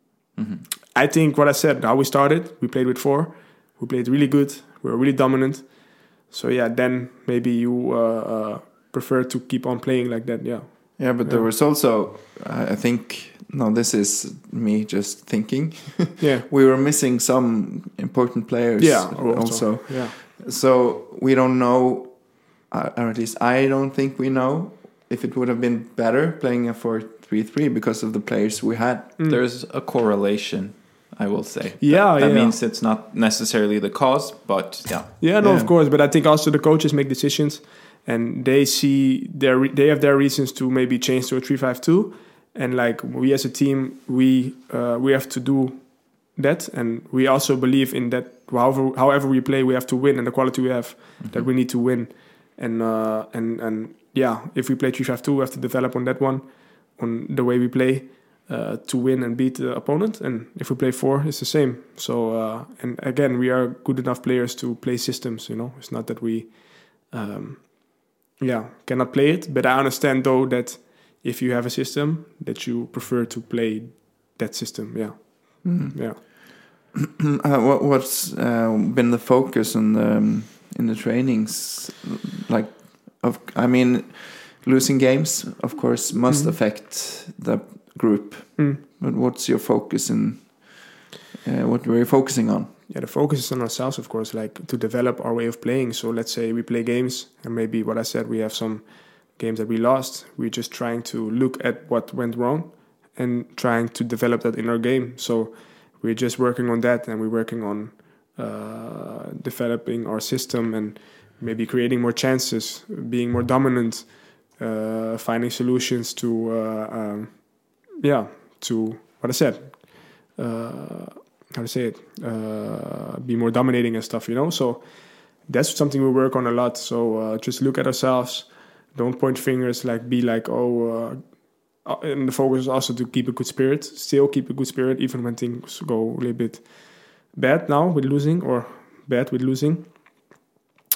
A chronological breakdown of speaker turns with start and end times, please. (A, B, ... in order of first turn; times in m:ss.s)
0:00.4-0:00.6 A
0:00.9-0:11.5 B
0:11.0-0:29.2 C
0:16.2-0:16.5 B
0:18.8-0:20.1 B
0:29.3-0:35.2 A
0:31.8-0:32.6 B
0:35.2-1:16.2 B
0:35.4-0:35.7 C
1:15.6-1:32.7 C
1:26.3-1:26.5 B
1:32.9-2:20.4 B